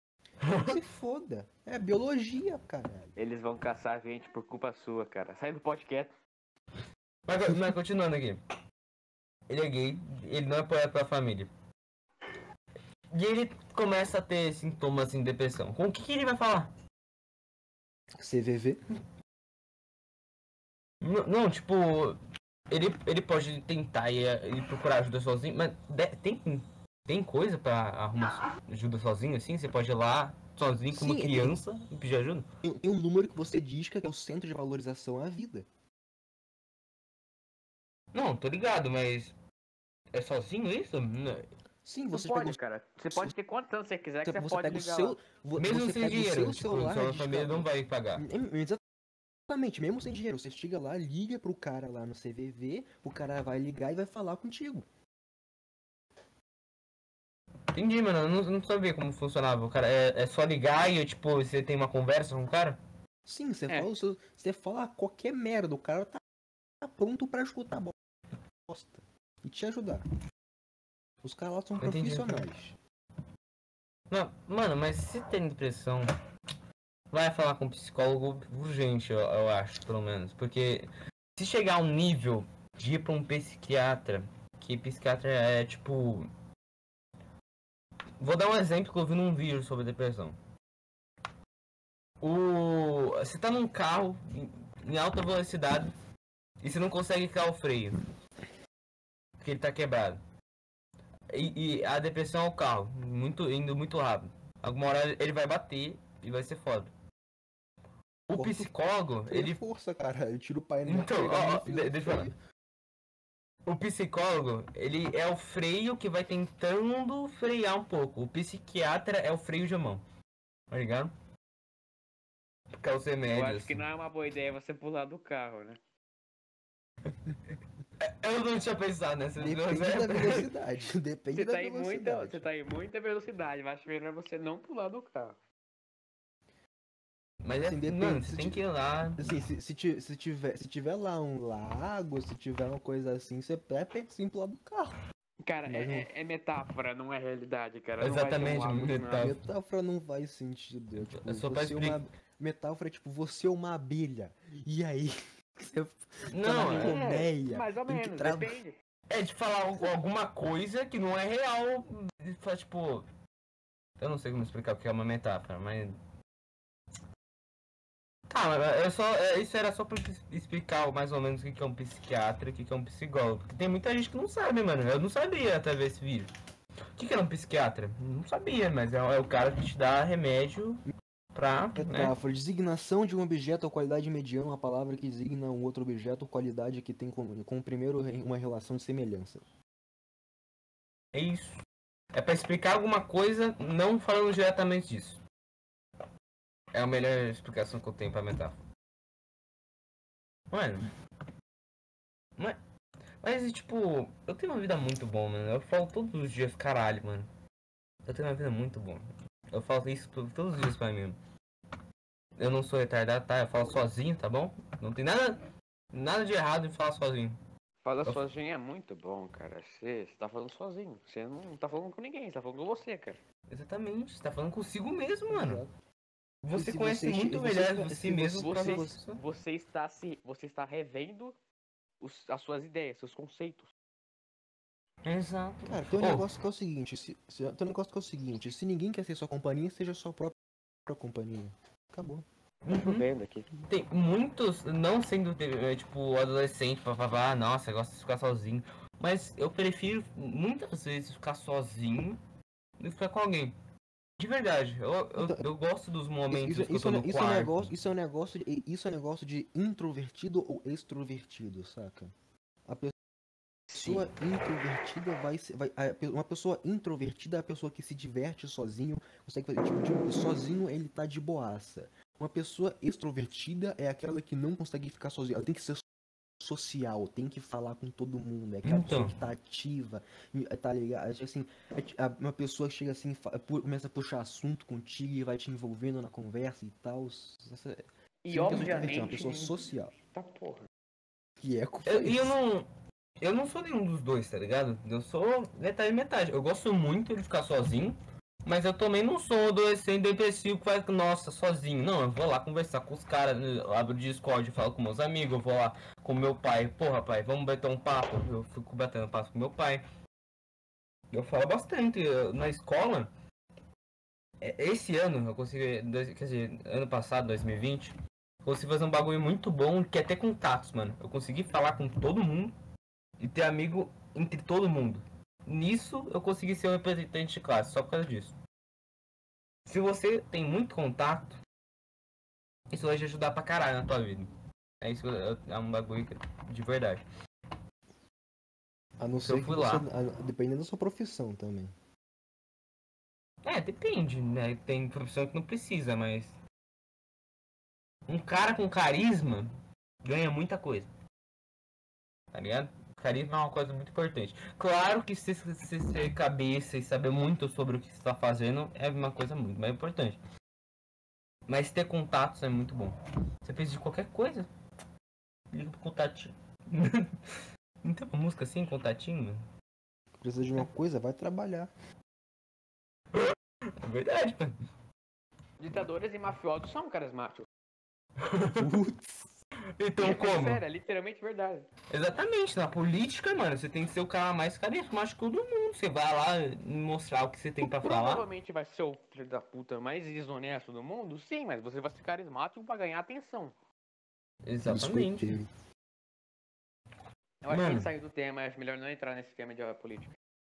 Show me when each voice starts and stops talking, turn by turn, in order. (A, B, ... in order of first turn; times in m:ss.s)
0:00.4-0:00.8 A
0:00.6-0:03.2 B
0:03.2-0:06.1 C
0:07.3-0:08.4 A
0:09.5-0:11.5 A
0:13.1-0:16.7 A
0:18.2-0:18.8 B
0:21.0-0:22.2 A
0:22.7-0:32.5 A
0:30.9-0:31.8 B
0:32.6-0:35.7 B
0:38.1-0:39.4 A
0:40.1-0:41.5 A
0:41.8-0:42.6 B
0:42.1-0:45.2 C
0:44.2-0:48.8 B
0:45.6-0:48.2 A
0:49.5-0:54.9 B
0:57.7-1:02.8 A
1:03.2-1:06.2 B
1:06.8-1:07.9 B
1:08.7-1:10.0 B
1:11.2-1:12.8 B
1:11.8-1:12.4 A
1:14.1-1:16.1 A
1:17.1-1:26.3 A
1:28.2-1:30.4 A
1:32.2-1:35.9 A
1:36.6-1:38.0 A
1:39.4-1:40.2 A
1:41.3-1:46.9 A
1:48.3-1:49.6 A
1:48.3-1:48.7 B
1:49.3-1:52.3 B
1:50.8-1:52.3 A
1:53.6-2:00.0 A
2:00.7-2:01.1 A
2:02.7-2:03.8 A
2:03.2-2:05.8 C
2:08.0-2:10.5 A
2:09.4-2:12.4 B
2:11.3-2:15.4 C
2:17.4-2:19.3 A
2:17.6-2:18.6 B
2:19.2-2:25.0 B
2:25.4-2:29.3 C
2:25.6-2:26.1 B
2:28.0-2:29.4 A
2:29.2-2:38.5 B
2:31.1-2:32.0 A
2:36.3-2:37.0 A
2:36.5-2:38.8 C
2:39.1-2:43.1 A
2:44.0-2:46.0 A
2:48.3-2:56.3 A
2:57.0-3:02.1 A
3:01.7-3:09.4 B
3:11.1-3:11.6 A
3:12.1-3:15.2 A
3:16.7-3:18.6 A
3:20.5-3:20.9 A
3:23.2-3:27.3 A
3:28.0-3:31.2 A
3:32.4-3:37.4 A
3:37.8-3:43.2 C
3:43.5-3:45.6 A
3:45.3-3:45.7 B
3:46.4-3:49.2 A
3:46.5-3:49.0 B
3:48.4-3:51.4 C
3:52.0-3:53.7 C
3:55.0-3:56.2 A
3:55.6-4:02.2 B
4:02.6-4:03.0 A
4:02.8-4:03.5 C
4:03.6-4:12.2 A
4:12.8-4:13.6 A
4:14.2-4:17.7 A
4:15.2-4:15.4 B
4:16.3-4:22.1 B
4:22.6-4:22.9 B
4:23.7-4:35.8 B
4:36.4-4:49.9 B
4:38.6-4:39.1 A
4:48.2-4:50.7 C
4:51.4-4:52.4 B
4:51.8-4:52.7 A
4:53.2-5:09.8 A
5:11.1-5:13.1 A
5:14.4-5:22.5 A
5:23.2-5:28.4 A
5:29.6-5:31.4 A
5:32.7-5:37.0 A
5:39.0-5:41.7 B
5:39.2-5:39.8 A
5:43.4-5:46.4 A
5:48.1-5:49.5 A
5:50.0-5:50.9 A
5:52.3-6:00.2 A
6:01.5-6:04.5 A
6:05.5-6:09.4 A
6:10.2-6:11.7 B
6:13.1-6:14.6 A
6:15.6-6:17.5 C
6:18.2-6:18.7 A
6:18.6-6:19.3 B
6:19.8-6:20.6 A
6:20.0-6:21.7 C
6:21.9-6:28.3 A
6:27.6-6:33.5 C
6:34.4-6:35.4 A
6:34.6-6:35.5 B
6:37.4-6:40.2 C
6:37.5-6:37.9 A